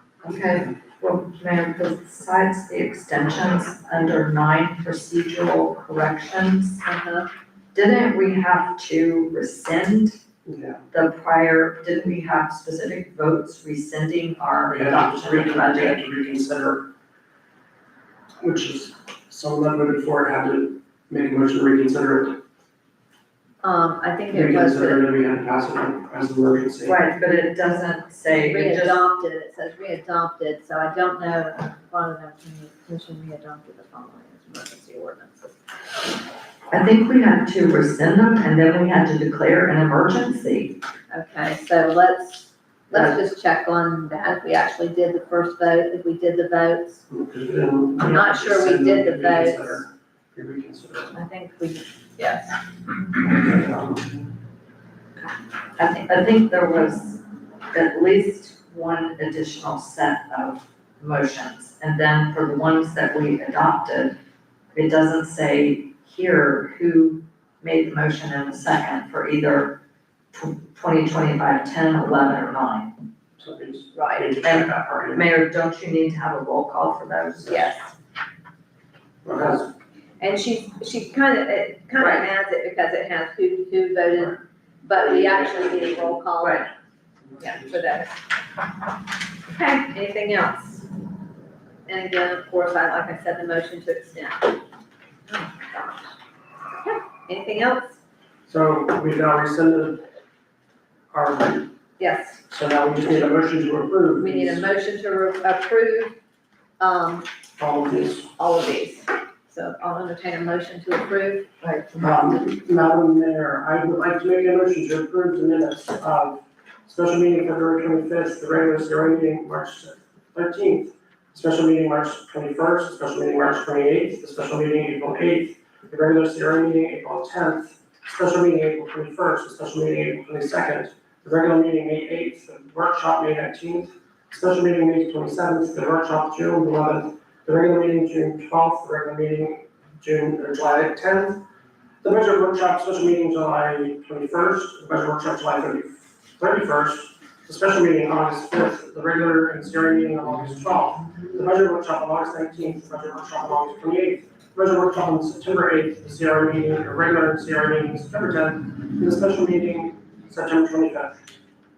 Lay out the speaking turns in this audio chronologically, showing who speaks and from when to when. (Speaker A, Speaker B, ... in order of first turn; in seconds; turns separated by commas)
Speaker A: 0.2-6.8, Speaker B: 6.8-7.3, Speaker A: 7.7-10.2, Speaker C: 10.4-10.8, Speaker A: 10.9-16.0, Speaker C: 14.7-16.9, Speaker C: 18.4-22.4, Speaker B: 23.6-25.0, Speaker C: 24.3-27.0, Speaker A: 26.8-29.0, Speaker B: 28.4-35.6, Speaker A: 36.7-40.8, Speaker B: 41.1-47.0, Speaker A: 42.9-43.2, Speaker C: 47.1-51.1, Speaker B: 48.0-49.9, Speaker A: 51.1-51.8, Speaker B: 52.1-52.5, Speaker C: 53.2-54.2, Speaker A: 55.8-64.1, Speaker A: 64.7-69.8, Speaker A: 70.3-72.9, Speaker C: 73.4-75.2, Speaker B: 73.9-74.3, Speaker A: 74.4-77.7, Speaker B: 77.5-77.9, Speaker C: 79.2-79.7, Speaker B: 80.2-86.7, Speaker A: 82.0-82.3, Speaker A: 86.4-86.7, Speaker C: 87.3-87.8, Speaker B: 87.4-88.2, Speaker B: 89.5-90.9, Speaker B: 91.9-94.5, Speaker B: 95.3-96.1, Speaker B: 96.7-98.0, Speaker C: 98.5-100.0, Speaker C: 101.1-101.7, Speaker B: 102.0-102.4, Speaker C: 102.5-104.7, Speaker B: 104.2-106.1, Speaker B: 106.8-107.3, Speaker C: 107.6-108.3, Speaker B: 108.4-111.5, Speaker A: 111.6-112.1, Speaker C: 112.0-141.4, Speaker C: 142.0-161.2